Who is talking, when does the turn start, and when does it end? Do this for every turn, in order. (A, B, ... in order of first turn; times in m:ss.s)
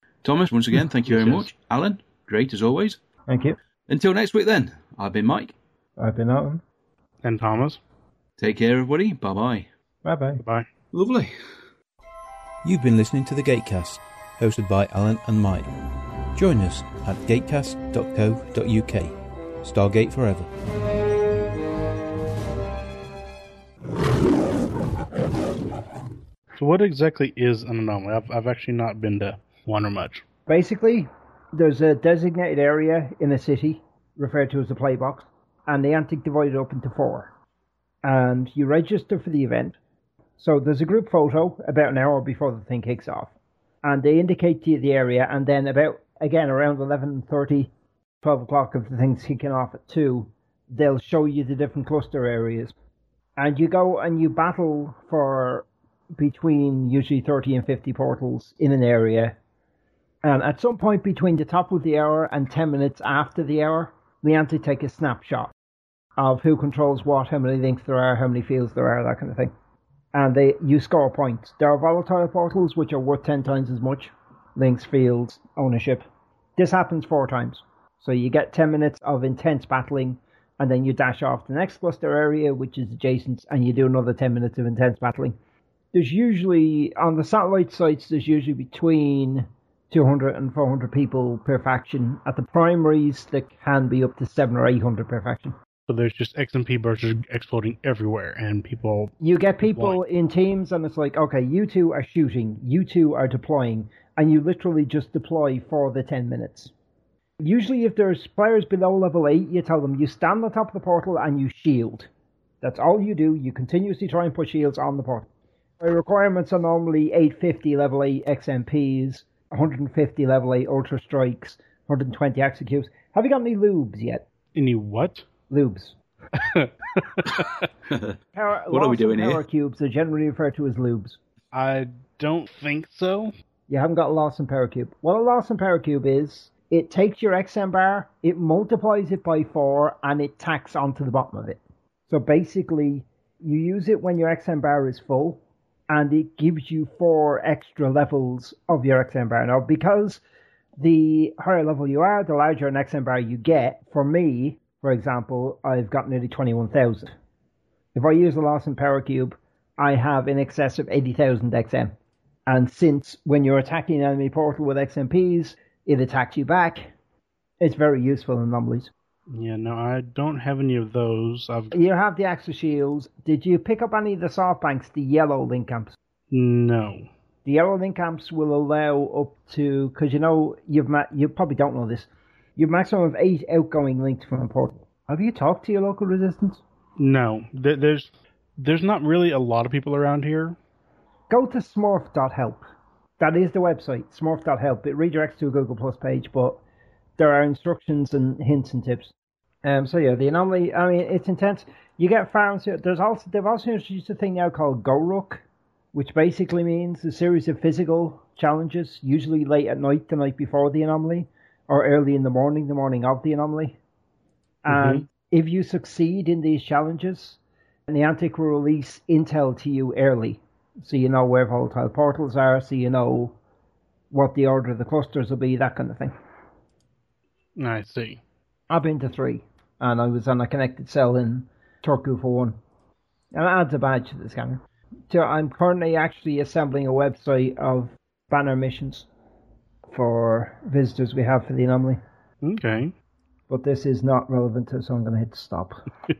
0:00.2-0:03.0 A
0:01.1-0:01.5 B
0:03.3-0:03.6 C
0:03.9-0:05.5 A
0:06.0-0:06.6 C
0:07.2-0:07.8 B
0:08.4-0:09.7 A
0:10.0-0:10.4 C
0:10.4-0:10.7 B
0:10.9-0:11.3 A
0:12.6-0:15.7 A
0:16.3-0:20.5 A
0:26.6-0:30.2 B
0:30.5-0:37.3 C
0:38.0-0:39.8 C
0:40.4-0:43.3 C
0:43.8-0:47.7 C
0:48.2-0:52.7 C
0:53.4-0:59.4 C
1:00.2-1:05.5 C
1:06.2-1:09.5 C
1:10.1-1:25.4 C
1:25.9-1:35.6 C
1:35.9-1:40.0 B
1:39.2-1:46.7 C
1:47.4-1:52.1 C
1:52.6-1:55.3 C
1:55.8-2:04.3 C
2:04.5-2:05.2 B
2:05.5-2:06.0 C
2:06.4-2:07.4 B
2:07.9-2:08.2 A
2:08.3-2:11.2 C
2:08.7-2:09.4 A
2:11.5-2:13.3 B
2:13.7-2:30.2 C
2:30.8-2:37.1 C
2:37.9-2:41.9 C
2:42.5-2:46.9 C
2:47.6-2:48.9 C
2:49.3-2:51.7 B
2:51.7-2:56.0 C
2:56.3-2:57.1 B
2:57.4-3:06.6 C
3:07.0-3:10.6 B
3:11.3-3:12.6 C
3:13.2-3:16.6 C
3:17.2-3:19.1 C
3:19.6-3:33.8 C
3:34.6-3:43.4 C
3:34.7-3:35.0 B
3:44.1-3:46.1 C
3:47.6-3:48.2 B
3:48.7-3:52.6 C
3:53.3-3:59.1 C
3:59.9-4:02.0 C
4:02.4-4:02.9 B
4:03.5-4:05.8 C